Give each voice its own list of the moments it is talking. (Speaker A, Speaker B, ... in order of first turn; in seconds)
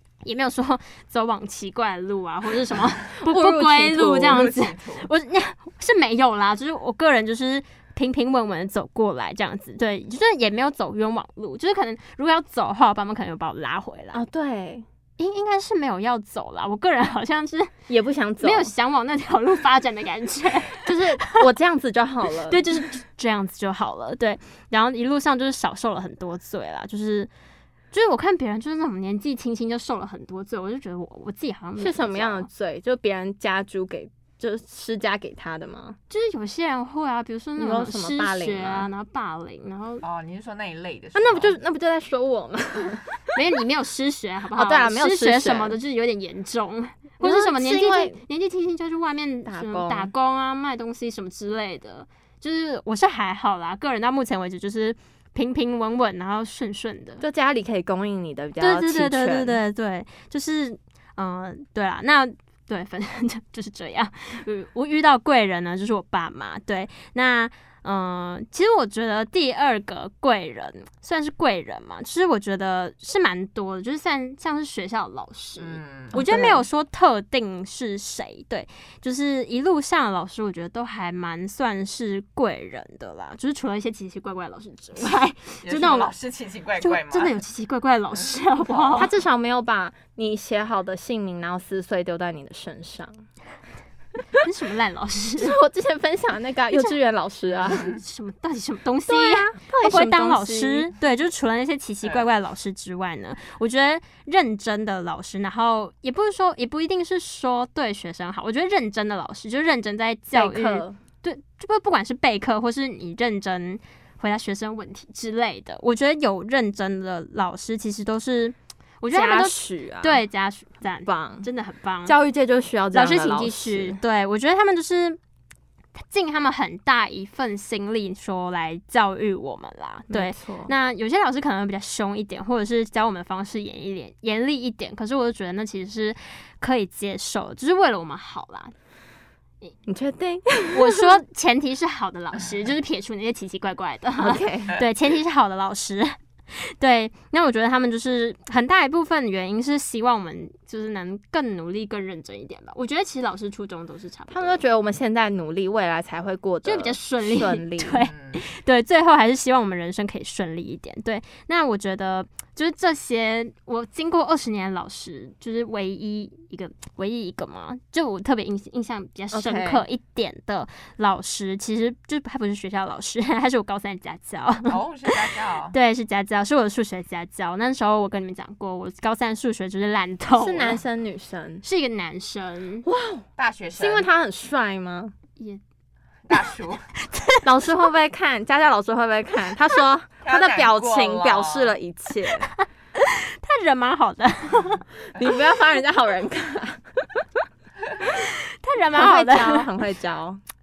Speaker A: 0.2-14.2, 15.2-17.7, 18.4-21.3, 22.5-27.3, 27.9-32.5, 36.1-40.0, 43.3-57.2, 58.6-86.1, 86.8-89.1, 94.4-95.6, 97.7-122.1, 122.9-125.2, 126.1-138.7, 140.7-154.5, 156.6-175.1, 175.7-180.8, 181.6-182.8, 187.1-187.4, 193.0-194.8, 198.2-199.7
Speaker B: 3.2-4.5, 14.1-14.8, 17.9-18.7, 20.8-22.6, 31.8-36.0, 37.6-38.9, 41.1-43.1, 44.5-45.8, 47.2-48.2, 49.5-50.1, 57.2-59.6, 76.1-76.6, 88.9-93.2, 95.4-97.8, 99.1-100.9, 110.3-111.0, 119.1-120.2, 121.0-121.5, 122.0-124.0, 130.1-130.7, 139.9-141.1, 144.2-144.8, 154.3-158.1, 169.3-169.8, 180.3-181.6, 182.8-183.2, 183.8-185.1, 187.4-192.5, 195.1-197.4, 198.9-200.4
Speaker C: 4.2-5.1, 40.0-41.6, 75.6-76.2, 85.6-87.4, 88.2-89.0, 97.6-98.0, 158.1-158.4, 174.7-175.7, 183.4-184.1, 186.3-186.8, 190.2-191.7